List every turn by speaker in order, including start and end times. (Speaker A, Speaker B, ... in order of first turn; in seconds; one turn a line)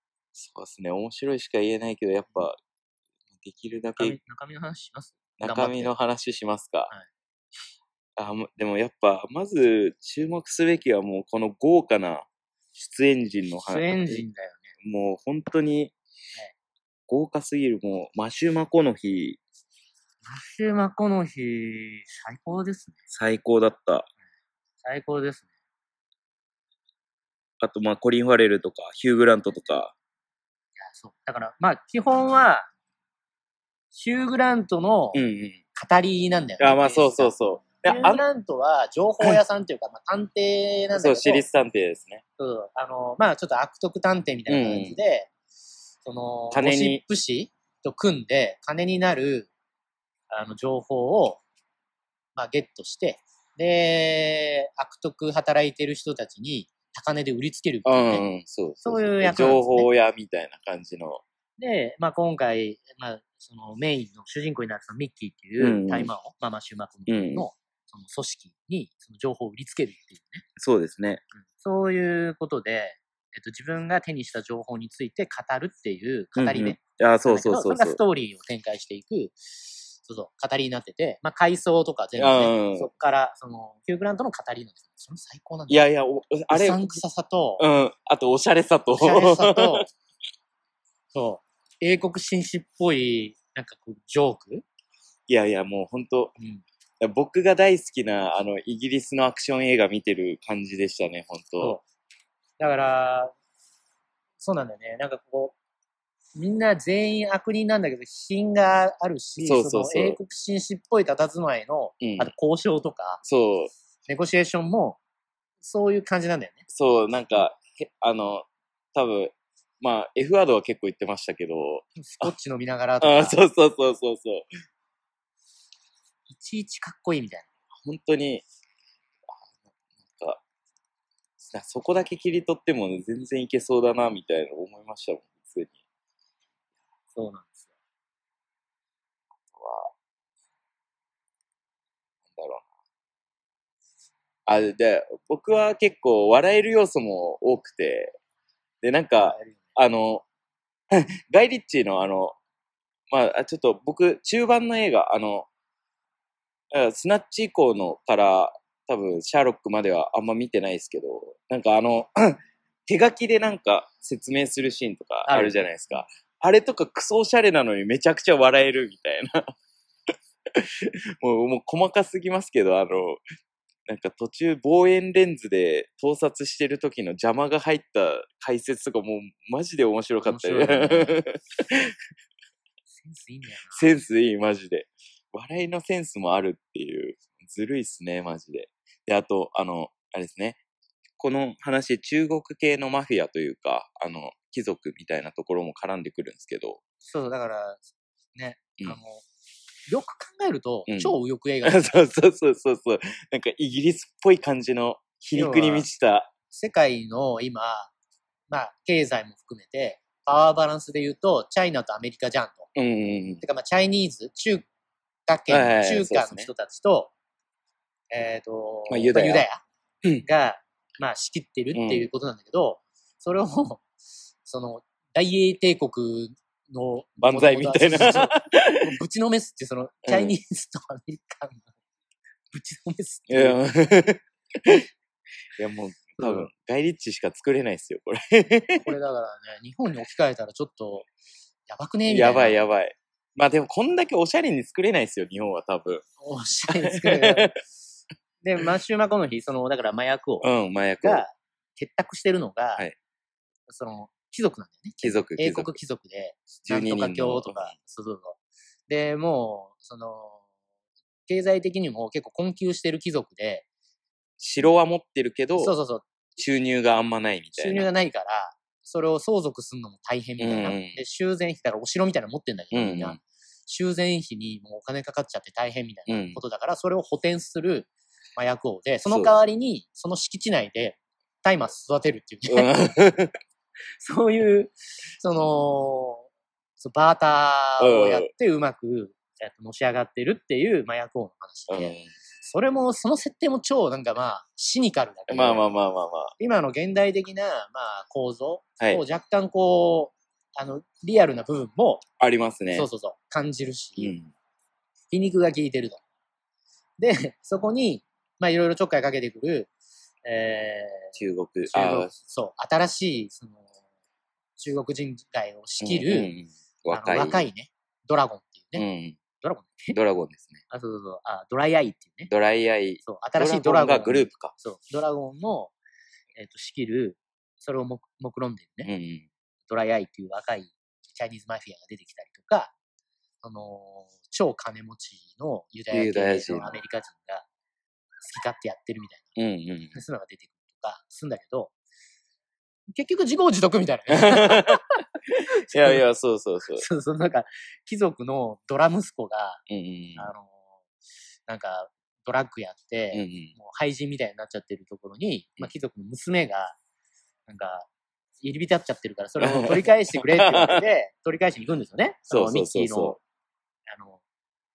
Speaker A: 0.3-2.6
Speaker A: 3.4-4.2
Speaker B: 4.0-5.9
Speaker A: 5.4-6.9
Speaker A: 8.2-14.2
Speaker B: 13.7-14.7
Speaker A: 14.8-15.9
Speaker A: 17.1-19.4
Speaker B: 20.2-23.0
Speaker A: 23.1-24.1
Speaker B: 24.8-25.5
Speaker A: 27.6-29.9
Speaker B: 30.8-32.7
Speaker B: 33.9-35.2
Speaker A: 35.1-35.6
Speaker B: 35.7-41.4
Speaker A: 36.6-38.2
Speaker A: 40.9-42.2
Speaker B: 42.4-45.3
Speaker A: 44.5-45.0
Speaker B: 46.0-49.5
Speaker A: 46.5-47.0
Speaker B: 50.3-51.4
Speaker B: 52.3-58.2
Speaker A: 57.8-61.2
Speaker B: 58.8-59.9
Speaker B: 61.6-70.4
Speaker A: 65.6-66.1
Speaker A: 67.1-67.5
Speaker A: 70.6-71.2
Speaker B: 71.4-79.3
Speaker A: 76.3-78.0
Speaker B: 80.0-85.8
Speaker A: 82.2-82.9
Speaker A: 85.7-87.0
Speaker B: 86.5-87.6
Speaker A: 87.6-89.8
Speaker B: 88.9-89.9
Speaker B: 91.1-94.6
Speaker A: 95.3-96.3
Speaker B: 96.4-96.6
Speaker A: 97.0-101.8
Speaker B: 102.6-103.3
Speaker B: 104.4-105.5
Speaker B: 106.3-113.2
Speaker A: 109.4-110.2
Speaker A: 112.0-112.3
Speaker A: 113.2-113.7
Speaker B: 114.1-115.0
Speaker B: 115.6-116.6
Speaker A: 116.7-122.3
Speaker B: 122.0-123.4
Speaker A: 123.0-124.5
Speaker B: 126.3-127.5
Speaker A: 127.8-128.4
Speaker A: 130.0-130.4
Speaker A: 131.4-135.8
Speaker B: 137.1-137.7
Speaker A: 139.5-139.9
Speaker A: 142.3-142.7
Speaker A: 144.5-148.1
Speaker A: 148.8-150.2
Speaker B: 149.2-149.7
Speaker A: 150.9-152.3
Speaker A: 153.1-155.5
Speaker A: 156.7-169.5
Speaker B: 165.2-166.0
Speaker A: 170.5-173.2
Speaker A: 173.9-181.9
Speaker B: 180.2-181.2
Speaker B: 182.9-183.9
Speaker A: 183.7-190.6
Speaker A: 191.2-196.8
Speaker B: 197.0-197.8
Speaker B: 198.3-199.2
Speaker B: 199.9-201.9
Speaker A: 200.9-206.3
Speaker B: 205.3-205.9
Speaker B: 206.5-207.9
Speaker B: 208.5-212.7
Speaker A: 212.7-213.4
Speaker B: 213.4-214.7
Speaker B: 215.2-217.1
Speaker A: 215.5-216.5
Speaker B: 218.1-219.6
Speaker A: 218.9-219.5
Speaker B: 220.2-223.8
Speaker A: 221.7-222.1
Speaker B: 224.4-231.7
Speaker A: 227.2-228.9
Speaker A: 230.1-230.3
Speaker B: 232.5-233.6
Speaker A: 233.3-234.9
Speaker A: 235.6-238.9
Speaker B: 236.2-236.5
Speaker B: 238.8-241.1
Speaker B: 241.7-242.6
Speaker A: 242.1-246.0
Speaker B: 246.2-247.5
Speaker A: 246.8-247.5
Speaker B: 248.4-250.5
Speaker A: 250.4-251.2
Speaker B: 251.0-252.8
Speaker B: 253.7-260.4
Speaker A: 255.0-255.8
Speaker A: 256.6-257.7
Speaker B: 261.3-263.6
Speaker A: 264.4-265.7
Speaker B: 265.6-266.1
Speaker A: 266.4-267.9
Speaker B: 267.6-282.7
Speaker A: 270.4-271.0
Speaker A: 272.7-273.2
Speaker A: 276.1-276.4
Speaker A: 279.1-279.4
Speaker A: 282.5-283.3
Speaker B: 284.0-286.3
Speaker B: 286.8-295.6
Speaker A: 287.8-288.3
Speaker A: 291.7-292.1
Speaker A: 295.3-296.3
Speaker B: 296.4-302.0
Speaker A: 302.2-302.9
Speaker B: 302.7-304.1
Speaker A: 304.0-304.3
Speaker B: 305.1-306.0
Speaker B: 307.0-309.7
Speaker B: 310.2-311.2
Speaker A: 311.1-312.1
Speaker B: 311.7-313.6
Speaker B: 314.6-316.3
Speaker A: 315.8-317.5
Speaker B: 316.9-318.9
Speaker A: 318.7-319.2
Speaker B: 319.4-320.0
Speaker A: 319.9-320.6
Speaker B: 320.7-322.3
Speaker A: 322.3-324.5
Speaker B: 323.0-325.7
Speaker B: 326.4-328.9
Speaker A: 328.8-329.3
Speaker B: 329.7-332.7
Speaker B: 333.4-337.4
Speaker A: 335.9-336.8
Speaker B: 338.2-339.3
Speaker A: 339.4-340.0
Speaker B: 339.9-341.7
Speaker B: 342.9-344.9
Speaker A: 344.1-346.8
Speaker B: 345.7-346.0
Speaker B: 346.8-349.6
Speaker A: 349.7-350.3
Speaker B: 350.1-350.7
Speaker B: 351.5-356.8
Speaker A: 353.1-353.5
Speaker B: 357.5-357.9
Speaker B: 358.4-363.2
Speaker A: 359.4-360.8
Speaker A: 362.3-363.2
Speaker B: 363.9-364.2